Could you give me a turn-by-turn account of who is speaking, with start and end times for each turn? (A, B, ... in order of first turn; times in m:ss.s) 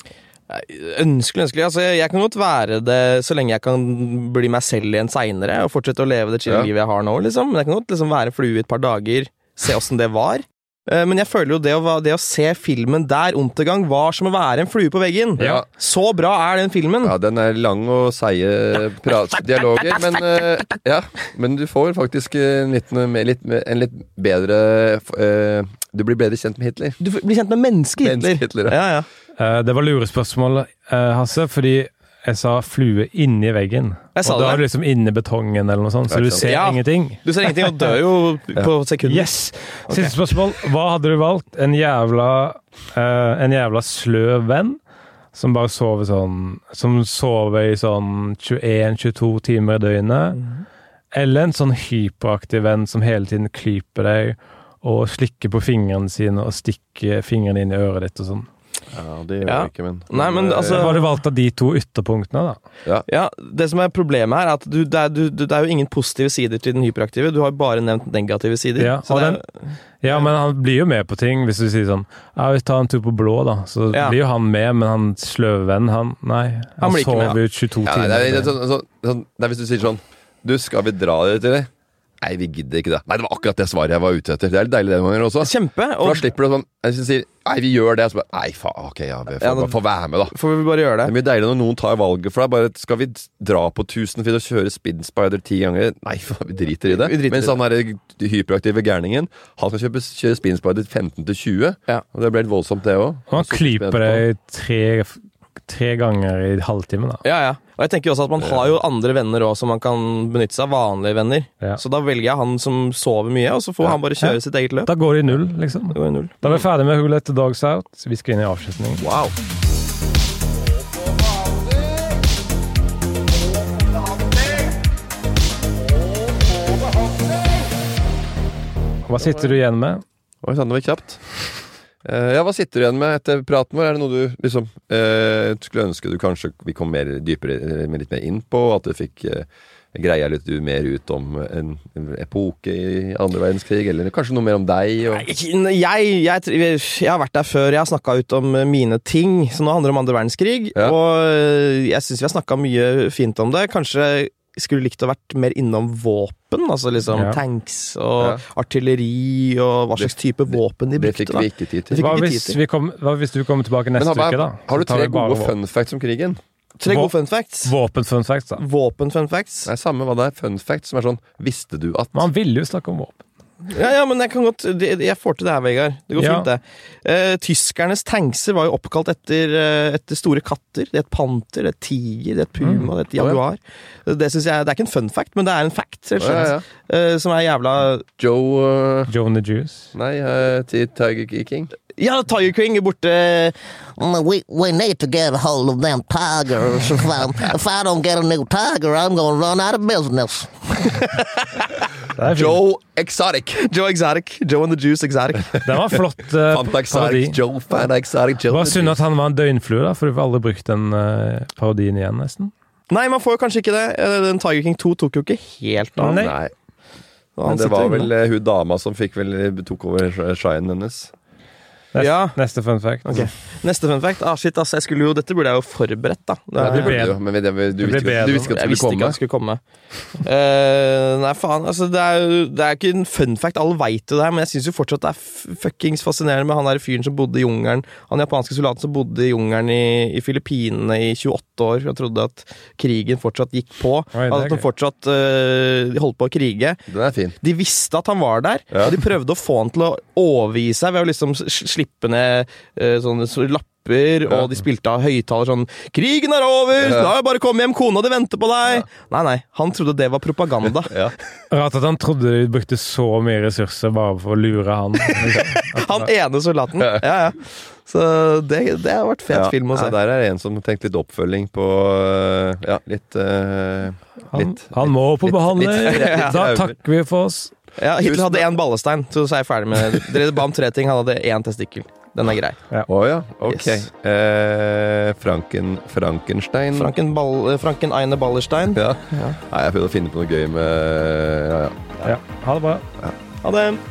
0:00.5-0:17.2 A
0:15.4-0:15.6 B
0:15.4-0:15.7 C
0:17.0-0:27.0 C
0:27.0-0:29.1 A
0:28.0-0:28.8 C
0:29.4-0:37.9 B
0:34.2-0:34.6 A
0:36.1-0:36.6 C
0:36.4-0:39.3 A
0:39.0-0:44.8 B
0:39.9-0:40.1 A
0:45.4-0:50.4 B
0:50.4-0:50.6 A
0:51.1-0:58.5 B
0:58.9-1:00.9 C
0:59.4-1:01.1 A
1:00.7-1:02.6 B
1:03.1-1:09.5 A
1:08.8-1:09.4 B
1:10.0-1:18.5 B
1:13.9-1:14.2 A
1:16.8-1:17.4 A
1:17.8-1:21.7 C
1:22.2-1:30.4 C
1:25.4-1:26.3 A
1:29.4-1:31.1 A
1:31.0-1:44.2 C
1:36.9-1:37.6 A
1:43.3-1:47.2 B
1:47.2-1:54.9 A
1:54.2-1:59.0 B
1:55.9-1:56.6 A
1:59.0-1:59.3 A
2:09.1-2:10.0 B
2:09.2-2:09.4 C
2:10.4-2:11.2 C
2:12.0-2:25.3 C
2:25.1-2:42.6 A
2:37.1-2:37.4 B
2:38.2-2:38.4 C
2:40.0-2:42.2 C
2:42.0-2:45.6 B
2:44.0-2:46.4 C
2:46.8-2:47.7 A
2:46.8-2:48.6 B
2:48.6-2:49.7 A
2:49.7-2:52.3 C
2:52.1-2:53.2 B
2:53.7-3:08.1 A
2:56.2-2:56.5 B
3:02.6-3:02.9 B
3:03.2-3:03.4 C
3:06.2-3:06.6 C
3:08.2-3:09.1 C
3:09.1-3:09.9 B
3:09.9-3:11.7 C
3:12.0-3:13.5 A
3:14.0-3:20.5 D
3:22.2-3:22.6 B
3:22.2-3:23.6 C
3:23.6-3:25.6 A
3:25.6-3:27.4 B
3:26.4-3:29.0 C
3:28.5-3:32.5 B
3:32.9-3:36.2 A
3:36.0-3:36.4 B
3:36.0-3:36.5 C
3:37.4-3:38.1 A
3:37.4-3:41.1 C
3:41.9-3:43.3 B
3:42.0-3:42.4 A
3:43.0-3:47.0 A
3:46.6-3:49.2 C
3:46.6-3:47.2 B
3:47.8-3:48.5 B
3:48.3-3:49.6 A
3:50.2-4:06.8 A
4:04.1-4:04.7 B
4:06.9-4:07.4 C
4:07.4-4:21.0 A
4:08.7-4:09.0 C
4:16.8-4:17.1 C
4:20.6-4:21.1 C
4:21.5-4:26.1 B
4:25.8-4:30.0 A
4:29.3-4:36.8 C
4:34.3-4:37.5 B
4:35.8-4:36.4 A
4:37.8-4:42.6 A
4:38.0-4:38.5 C
4:42.9-4:46.9 C
4:43.5-4:43.8 A
4:46.7-4:49.4 A
4:48.8-4:52.2 C
4:52.0-4:52.9 B
4:53.4-4:53.8 A